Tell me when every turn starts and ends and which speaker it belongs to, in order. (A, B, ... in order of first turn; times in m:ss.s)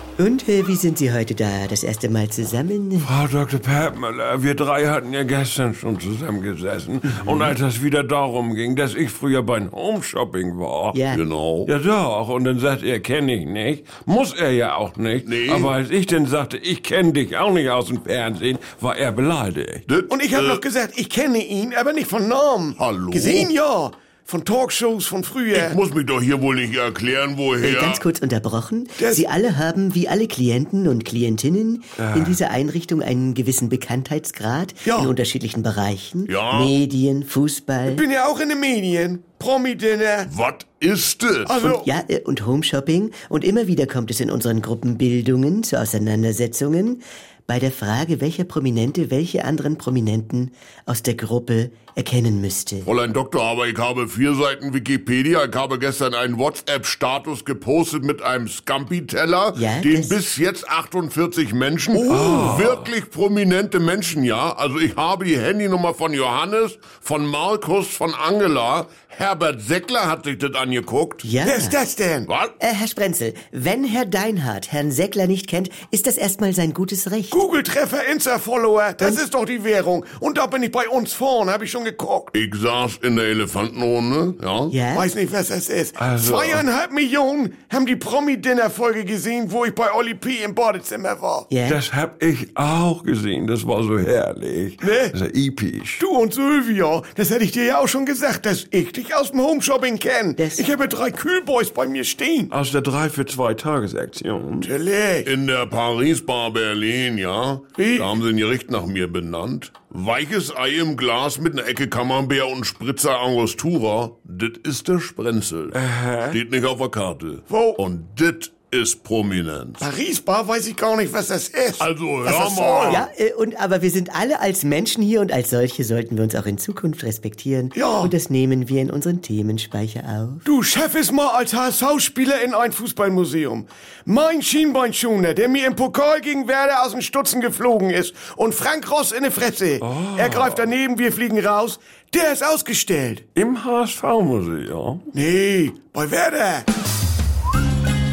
0:00.2-0:03.1 A
0:03.0-0:11.0 B
0:10.9-0:11.2 A
0:11.1-0:11.7 C
0:11.6-0:19.8 B
0:15.2-0:15.7 C
0:19.9-0:20.6 C
0:20.1-0:25.7 D
0:22.8-0:23.5 C
0:25.5-0:28.0 C
0:27.6-0:38.0 A
0:29.0-0:29.2 D
0:32.0-0:32.4 B
0:34.8-0:35.1 D
0:36.3-0:36.7 C
0:37.9-0:40.3 D
0:40.3-0:41.5 C
0:41.5-0:41.9 D
0:41.6-0:52.9 A
0:52.8-1:11.3 C
0:59.5-1:00.2 A
1:02.0-1:02.9 B
1:11.2-1:11.8 A
1:11.4-1:12.3 D
1:12.3-1:12.5 C
1:12.6-1:17.4 A
1:17.3-1:22.3 D
1:22.4-1:24.8 C
1:24.7-1:25.1 A
1:24.9-1:31.5 D
1:26.0-1:26.6 B
1:31.5-1:31.8 A
1:31.6-1:36.0 B
1:34.8-1:35.1 D
1:36.0-1:42.5 D
1:40.4-1:40.7 A
1:42.5-1:44.7 B
1:44.6-1:45.3 D
1:45.2-1:55.8 C
1:47.8-1:48.1 D
1:55.7-1:56.4 B
1:56.3-1:59.8 C
1:57.5-1:57.8 D
1:59.8-2:02.9 D
2:01.8-2:03.1 C
2:02.8-2:10.4 A
2:07.7-2:08.1 D
2:10.4-2:23.2 D
2:19.8-2:20.7 B
2:23.3-2:25.0 B
2:25.1-2:26.7 D